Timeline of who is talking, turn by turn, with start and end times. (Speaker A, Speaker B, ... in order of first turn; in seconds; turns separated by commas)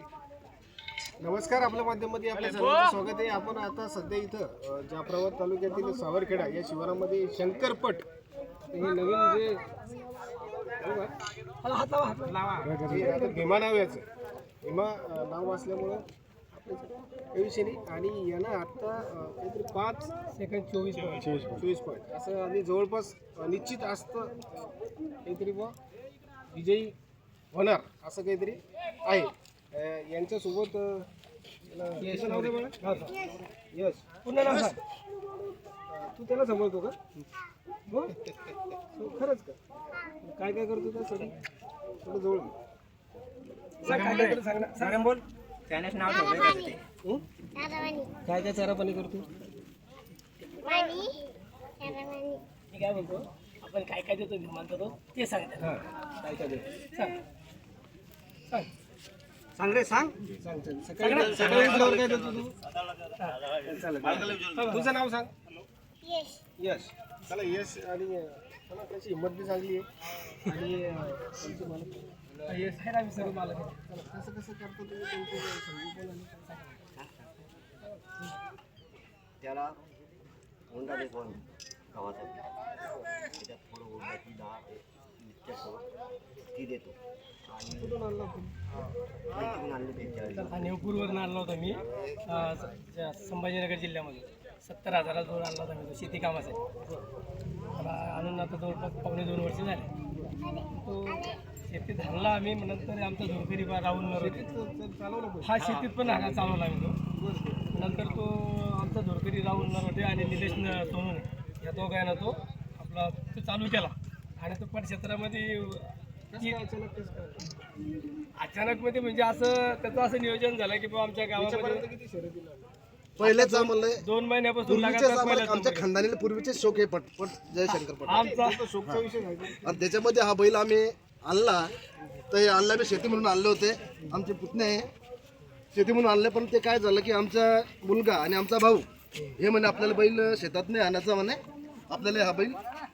Speaker A: 1.2-8.1, Speaker A: 8.7-9.7, Speaker A: 10.7-11.1, Speaker B: 11.6-12.6, Speaker C: 12.4-12.7, Speaker A: 12.5-14.0, Speaker A: 14.6-20.1, Speaker B: 20.3-21.2, Speaker A: 21.2-24.7, Speaker A: 25.2-25.7, Speaker A: 26.5-26.9, Speaker A: 27.5-31.1, Speaker A: 31.7-32.8, Speaker C: 32.0-33.0, Speaker B: 32.8-33.1, Speaker A: 33.7-34.7, Speaker B: 34.2-34.8, Speaker A: 35.9-37.0, Speaker A: 38.9-39.6, Speaker A: 40.2-41.3, Speaker A: 42.0-42.5, Speaker B: 43.8-44.8, Speaker A: 43.8-45.0, Speaker C: 44.8-46.8, Speaker D: 46.1-46.8, Speaker D: 47.5-48.2, Speaker A: 48.2-49.4, Speaker D: 50.6-52.4, Speaker B: 52.7-55.8, Speaker A: 55.6-56.4, Speaker C: 59.6-60.2, Speaker A: 60.4-62.5, Speaker B: 61.0-62.0, Speaker A: 63.6-65.3, Speaker B: 64.5-64.8, Speaker D: 66.0-66.4, Speaker A: 66.6-69.8, Speaker A: 70.4-73.3, Speaker B: 72.5-73.8, Speaker A: 73.9-76.6, Speaker E: 77.0-77.3, Speaker E: 79.4-79.9, Speaker E: 80.7-82.6, Speaker E: 83.3-88.0, Speaker A: 87.7-88.6, Speaker E: 89.3-90.8, Speaker B: 90.3-96.6, Speaker E: 92.0-92.5, Speaker B: 97.8-99.9, Speaker D: 100.4-101.3, Speaker B: 100.8-104.5, Speaker A: 104.1-105.5, Speaker B: 105.4-107.0, Speaker A: 107.1-107.9, Speaker B: 107.7-116.5, Speaker A: 116.3-117.5, Speaker B: 118.4-121.8, Speaker A: 121.3-122.7, Speaker F: 123.2-124.0, Speaker B: 123.2-125.9, Speaker F: 124.7-128.3, Speaker B: 128.0-128.6, Speaker A: 128.1-129.8, Speaker F: 129.6-131.7, Speaker F: 132.3-134.9, Speaker F: 135.7-142.6